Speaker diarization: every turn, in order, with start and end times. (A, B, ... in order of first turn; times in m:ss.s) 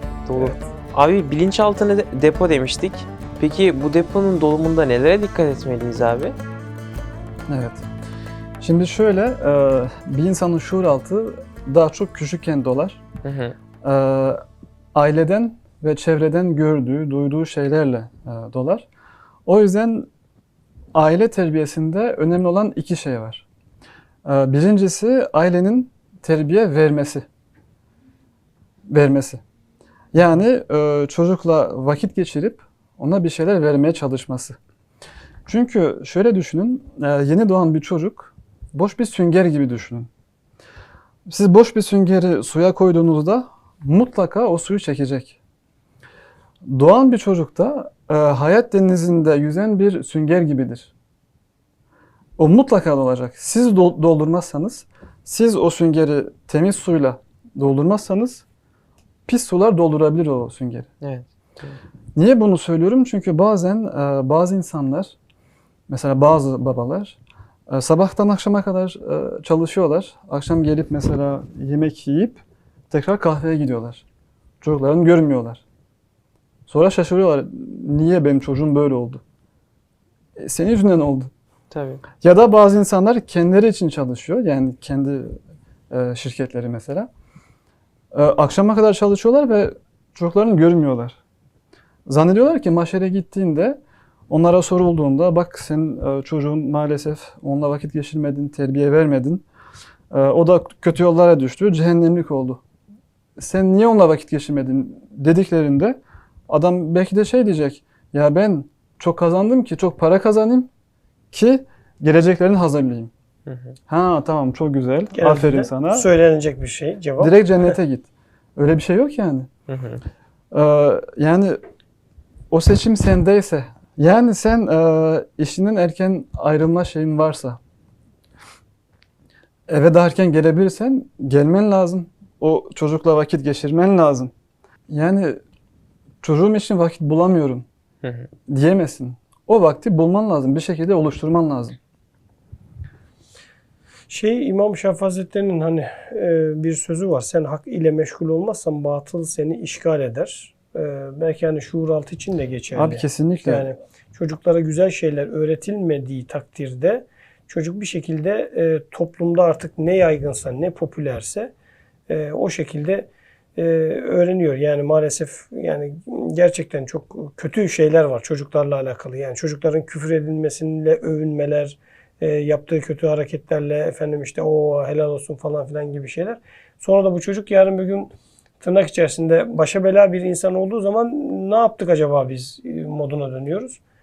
0:00.3-0:06.4 A
0:00.4-0:00.7 B
0:07.5-0:07.9 C
0:08.6-0:13.0 C
0:13.2-0:13.6 A
0:13.8-0:14.4 C
0:15.0-0:18.9 C
0:19.5-0:20.1 C
0:20.9-0:23.5 C
0:24.2-0:27.2 C
0:28.9-0:29.4 C
0:30.1-0:34.6 C
0:35.5-0:40.1 C
0:41.3-0:45.4 C
0:46.6-0:50.9 C
0:52.4-0:58.4 C
0:59.3-1:00.9 C
1:01.0-1:01.8 A
1:02.2-1:05.2 C
1:05.9-1:07.2 C
1:07.7-1:14.0 C
1:14.6-1:15.6 C
1:16.7-1:19.2 C
1:20.4-1:21.3 C
1:21.7-1:22.0 A
1:22.2-1:25.4 C
1:25.9-1:27.1 C
1:28.1-1:31.2 C
1:32.1-1:33.8 C
1:34.3-1:39.4 C
1:40.1-1:42.6 C
1:43.4-1:46.0 C
1:46.5-1:50.7 C
1:51.3-1:53.1 C
1:53.5-1:53.8 A
1:53.9-1:56.1 C
1:55.1-1:57.7 B
1:57.2-1:59.5 C
1:59.7-2:00.0 A
2:00.5-2:01.6 C
2:02.5-2:07.6 C
2:09.7-2:14.3 C
2:14.9-2:15.4 C
2:16.2-2:17.6 C
2:18.0-2:18.3 A
2:18.5-2:21.8 C
2:24.1-2:41.5 B
2:32.7-2:33.7 C
2:42.1-3:03.8 B